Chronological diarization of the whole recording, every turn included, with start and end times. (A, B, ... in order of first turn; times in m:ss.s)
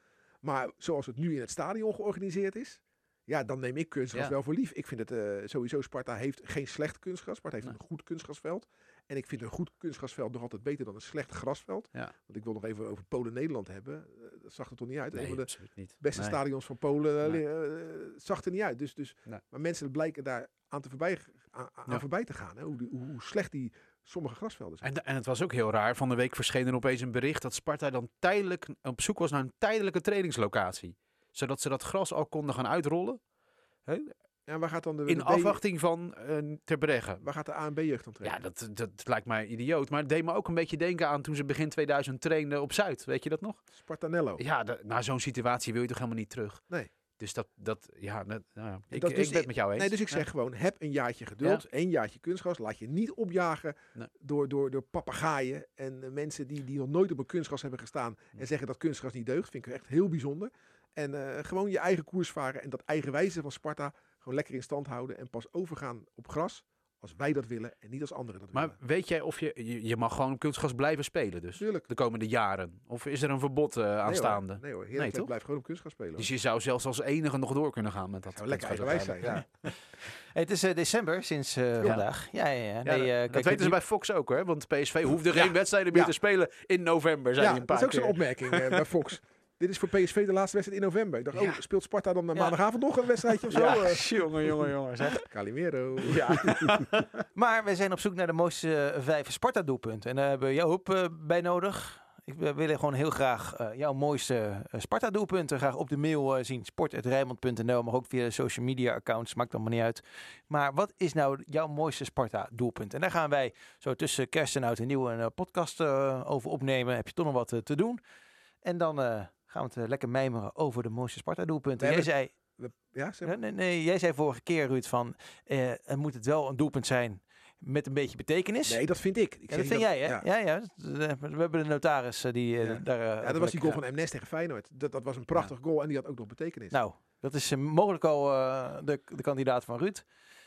0:00.4-0:24.9 A
0:15.1-0:16.4 B
0:24.8-0:33.2 B
0:33.9-0:34.1 B
0:34.5-0:35.6 A
0:35.1-0:37.2 B
0:37.2-0:38.4 A
0:38.2-0:43.6 B
0:43.7-0:44.4 A
0:44.4-0:46.6 B
0:47.2-0:50.2 B
0:48.9-1:08.8 A
1:08.5-1:15.3 B
1:11.6-1:11.9 A
1:14.0-1:16.3 A
1:16.2-1:19.5 B
1:18.4-1:19.4 A
1:20.3-1:23.8 C
1:22.8-1:28.8 B
1:25.3-1:26.1 A
1:27.4-1:34.1 A
1:33.5-1:35.2 B
1:35.2-1:36.7 A
1:36.0-1:37.1 B
1:37.3-1:58.0 C
1:58.6-2:02.3 C
2:01.8-2:03.4 A
2:03.2-2:08.8 C
2:08.6-2:10.2 A
2:09.5-2:13.8 C
2:12.6-2:16.8 A
2:16.7-2:20.1 C